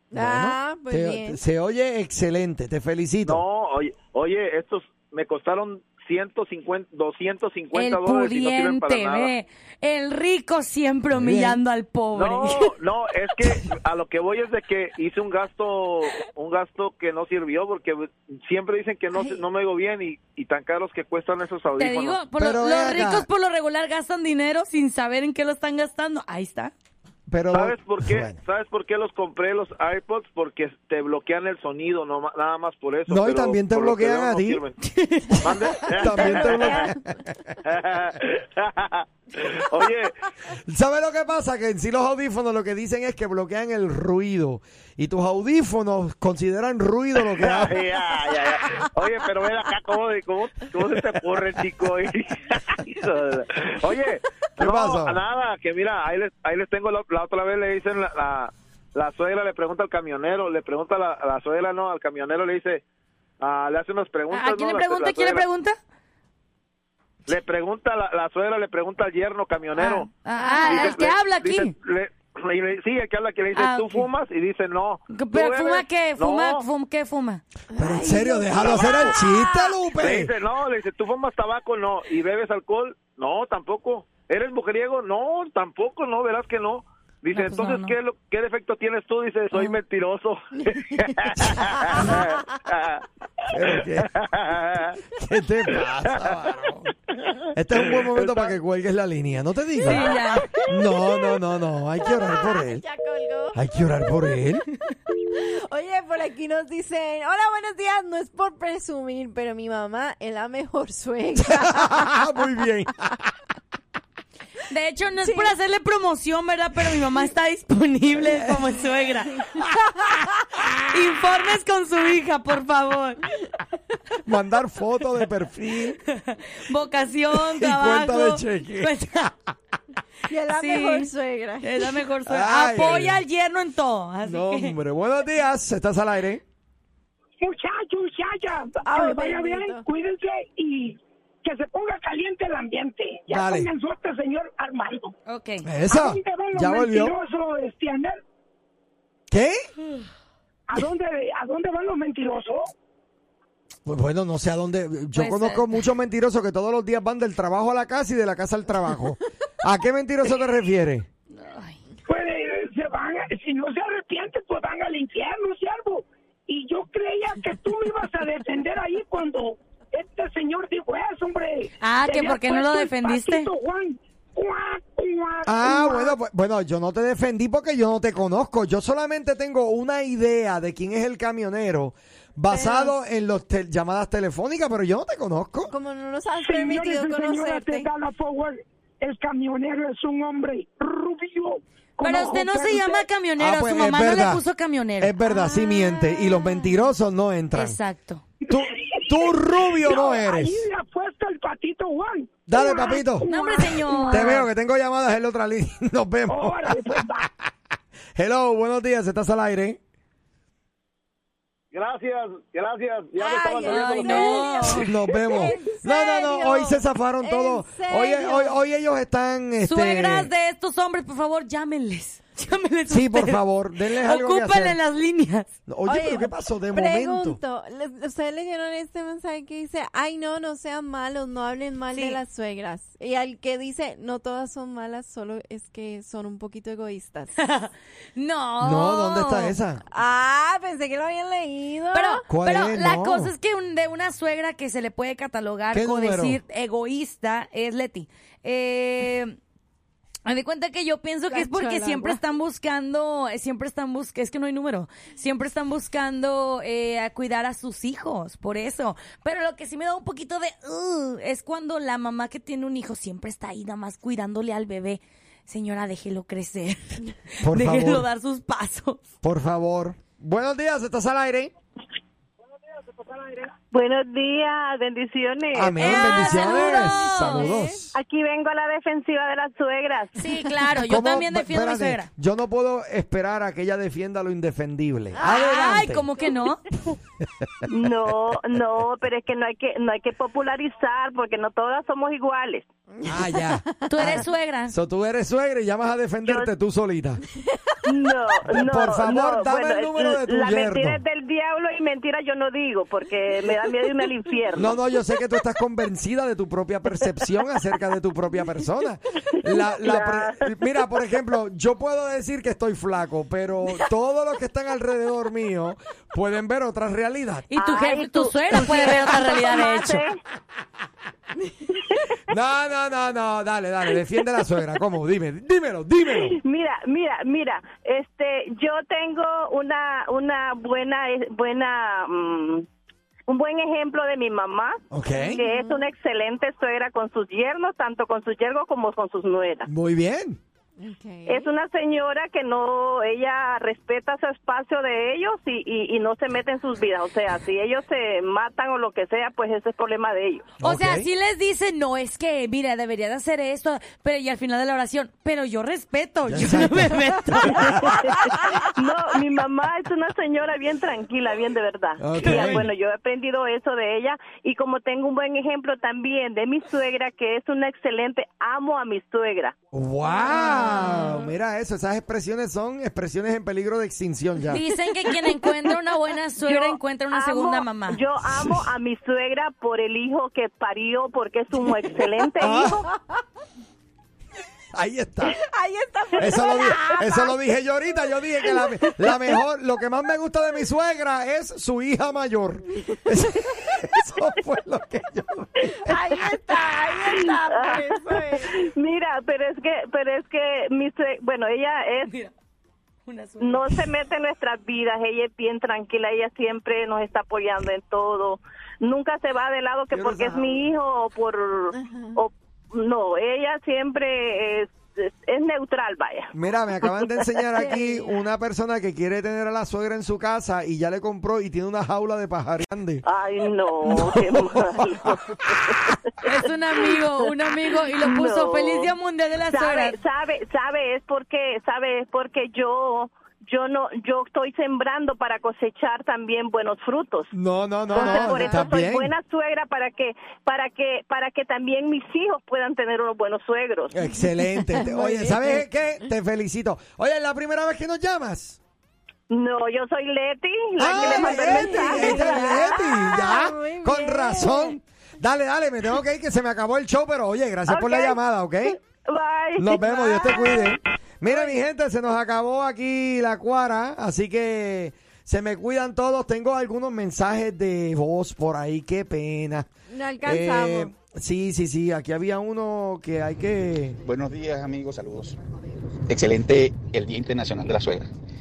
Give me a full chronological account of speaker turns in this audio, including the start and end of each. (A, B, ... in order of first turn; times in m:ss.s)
0:00.1-0:01.4 A
0:00.1-0:03.4 B
0:03.2-0:09.3 C
0:07.7-0:12.7 D
0:11.1-0:11.6 B
0:12.2-0:22.2 C
0:19.2-0:19.4 A
0:21.8-0:26.7 D
0:22.4-0:23.3 B
0:27.3-0:28.4 B
0:27.5-0:34.8 C
0:33.1-0:34.6 B
0:34.8-0:35.4 D
0:35.4-0:36.9 C
0:35.9-0:37.6 B
0:36.1-0:36.9 A
0:37.6-0:40.1 C
0:40.7-0:47.8 B
0:47.4-1:02.8 C
0:54.6-0:55.2 B
1:03.4-1:05.4 C
1:04.3-1:05.8 D
1:07.3-1:10.1 C
1:09.8-1:11.8 D
1:10.3-1:11.0 A
1:10.6-1:16.6 C
1:13.6-1:14.1 D
1:15.1-1:17.4 D
1:17.7-1:19.4 A
1:17.8-1:20.3 B
1:18.6-1:19.2 C
1:20.0-1:33.0 C
1:27.3-1:28.0 D
1:33.5-1:34.2 B
1:33.7-1:35.0 C
1:35.1-1:36.9 B
1:37.5-1:40.1 B
1:37.8-1:38.6 C
1:39.8-1:40.5 D
1:39.9-1:41.4 A
1:40.7-1:42.8 B
1:42.0-1:43.6 A
1:43.5-1:44.6 B
1:45.4-1:52.3 A
1:51.5-1:53.2 B
1:54.7-1:59.4 D
1:55.2-1:55.6 A
2:00.0-2:00.3 A
2:00.9-2:03.2 D
2:04.2-2:06.0 B
2:06.1-2:09.3 D
2:07.3-2:09.3 B
2:10.3-2:11.9 A
2:10.5-2:14.8 D
2:12.3-2:13.2 B
2:14.2-2:16.4 B
2:17.4-2:25.1 E
2:18.8-2:19.8 A
2:23.3-2:23.7 B
2:25.3-2:25.7 D
2:25.6-2:27.2 B
2:25.9-2:28.2 E
2:29.3-2:29.7 B
2:30.7-2:32.7 E
2:33.9-2:41.1 B
2:35.2-2:35.7 D
2:41.3-2:41.8 D
2:42.1-2:56.2 E
2:51.8-2:53.5 D
2:55.5-3:05.7 B
3:02.5-3:02.9 A
3:05.7-3:07.9 A
3:06.4-3:13.0 E
3:12.0-3:15.2 D
3:13.4-3:14.4 B
3:15.0-3:17.8 B
3:15.2-3:16.7 A
3:17.5-3:18.2 D
3:18.4-3:24.2 E
3:18.5-3:20.6 B
3:22.5-3:23.3 B
3:23.2-3:24.5 D
3:24.1-3:27.5 B
3:26.3-3:27.3 E
3:28.2-3:29.8 B
3:31.7-3:34.5 C
3:33.2-3:38.6 A
3:33.7-3:34.9 D
3:34.8-3:40.3 B
3:39.6-3:43.4 D
3:42.9-3:44.8 B
3:43.9-3:45.6 D
3:45.7-3:47.4 B
3:45.8-3:57.4 A
3:51.9-3:52.2 D
3:57.4-3:59.6 D
3:58.6-3:59.8 B
3:59.9-4:02.2 A
4:01.9-4:09.4 D
4:02.3-4:03.3 B
4:05.7-4:06.4 B
4:10.3-4:29.1 D
4:11.3-4:12.2 A
4:27.4-4:28.1 B
4:29.2-4:31.5 B
4:33.7-4:36.2 F
4:35.5-4:37.9 B
4:35.8-4:37.6 D
4:36.3-4:37.8 A
4:38.0-4:40.2 F
4:40.2-4:42.1 D
4:40.8-4:46.1 B
4:45.2-4:45.8 A
4:45.2-4:46.6 D
4:47.4-4:47.7 B
4:47.7-4:52.7 F
4:53.0-4:54.1 A
4:53.1-4:57.2 B
4:53.9-4:54.8 D
4:56.2-4:56.5 F
4:57.8-5:04.8 F
4:58.5-5:01.0 B
5:04.6-5:17.5 B
5:09.4-5:10.5 F
5:17.5-5:20.0 D
5:17.6-5:20.2 F
5:22.3-5:26.4 B
5:26.1-5:32.7 F
5:33.3-5:39.7 F
5:34.9-5:35.4 B
5:35.1-5:35.9 A
5:39.7-5:40.4 B
5:40.8-5:41.5 A
5:41.3-5:50.5 F
5:50.6-5:57.9 D
5:50.6-5:51.1 B
5:56.3-5:58.4 B
5:58.6-6:09.6 F
6:02.0-6:02.7 B
6:09.7-6:14.6 B
6:10.1-6:11.3 A
6:14.5-6:18.0 D
6:16.5-6:22.8 F
6:21.6-6:23.0 A
6:22.4-6:22.8 B
6:24.7-6:25.4 B
6:25.3-6:27.4 A
6:26.2-6:35.9 B
6:28.5-6:28.9 A
6:35.8-6:38.6 A
6:37.2-6:42.1 F
6:42.0-6:42.3 D
6:43.1-6:43.8 D
6:43.4-6:57.4 F
6:49.9-6:50.6 B
6:51.7-6:52.2 A
6:56.3-7:03.0 B
6:57.6-6:58.2 A
7:03.0-7:08.9 F
7:03.8-7:05.7 B
7:06.2-7:10.0 D
7:09.5-7:17.3 F
7:17.3-7:19.1 B
7:17.9-7:24.0 F
7:17.9-7:18.7 A
7:23.9-7:28.6 B
7:24.0-7:25.6 A
7:29.3-7:32.6 F
7:30.8-7:38.8 B
7:30.8-7:34.8 A
7:37.7-7:40.8 F
7:39.6-7:49.7 B
7:49.9-7:50.9 A
7:50.2-7:54.0 B
7:54.0-7:55.4 G
7:56.1-7:58.1 G